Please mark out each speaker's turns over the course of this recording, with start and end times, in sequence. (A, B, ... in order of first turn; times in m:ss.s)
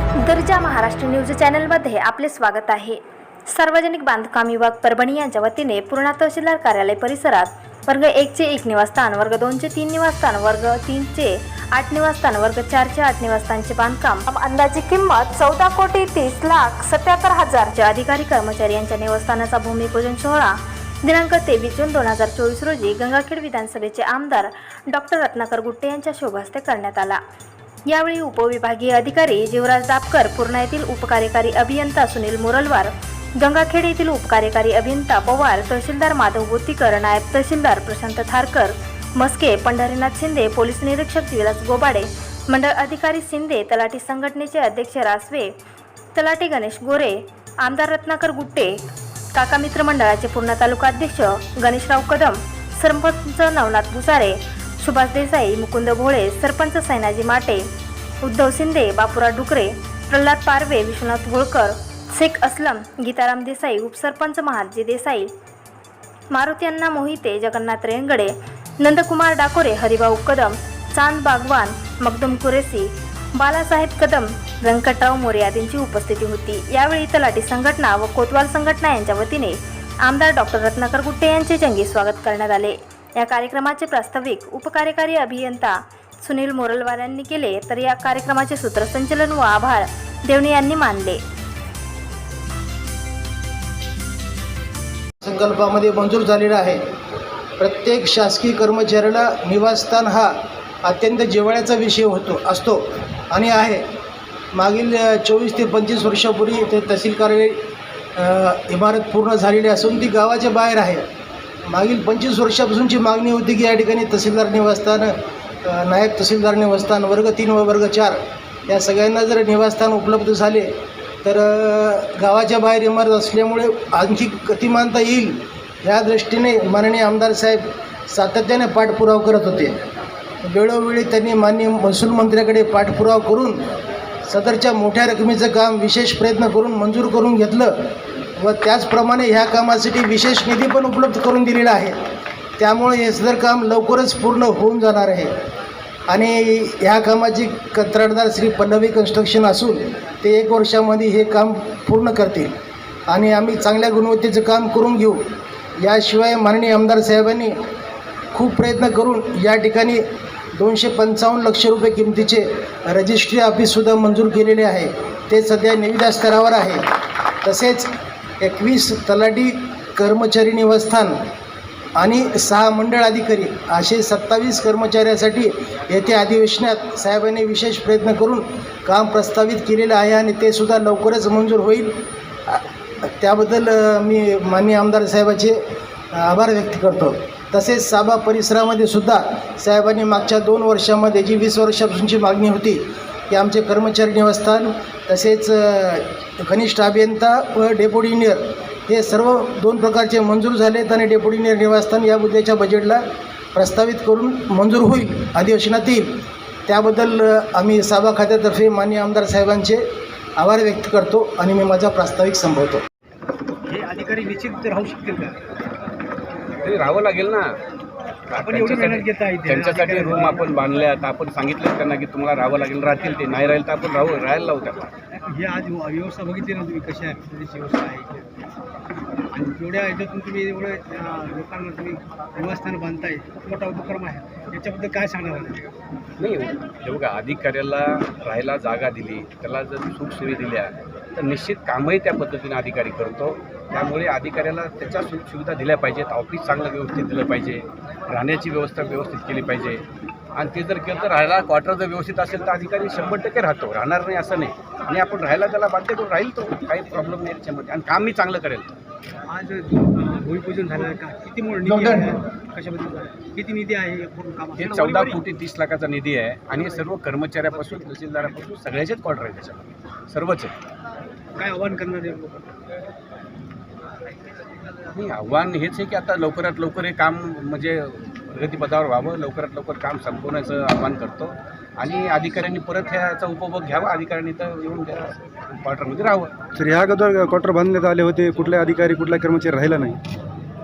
0:00.2-0:27.2 A
0:27.9-0:45.5 A
0:46.2-0:48.8 A
0:49.4-0:57.6 A
0:58.2-1:05.3 A
1:06.3-1:31.2 A
1:35.2-1:36.8 B
1:37.6-1:43.8 B
1:44.5-1:47.6 B
1:48.2-1:51.0 B
1:51.6-2:09.8 B
2:10.4-2:13.6 B
2:14.2-2:22.0 B
2:22.6-2:25.3 B
2:26.1-2:32.5 B
2:33.1-2:35.2 B
2:35.8-2:37.6 B
2:38.3-2:40.0 B
2:40.5-2:46.8 B
2:47.4-2:51.2 B
2:52.0-3:05.6 B
3:06.1-3:32.8 B
3:33.7-3:35.4 C
3:36.6-3:37.6 D
3:38.3-3:44.9 D
3:38.4-3:40.4 C
3:45.2-3:48.3 C
3:49.3-3:55.7 C
3:56.2-4:09.8 D
4:10.4-4:18.7 D
4:19.3-4:25.2 C
4:21.6-4:22.1 B
4:24.6-4:30.5 D
4:31.4-4:32.5 C
4:34.9-4:46.4 D
4:46.6-4:50.0 E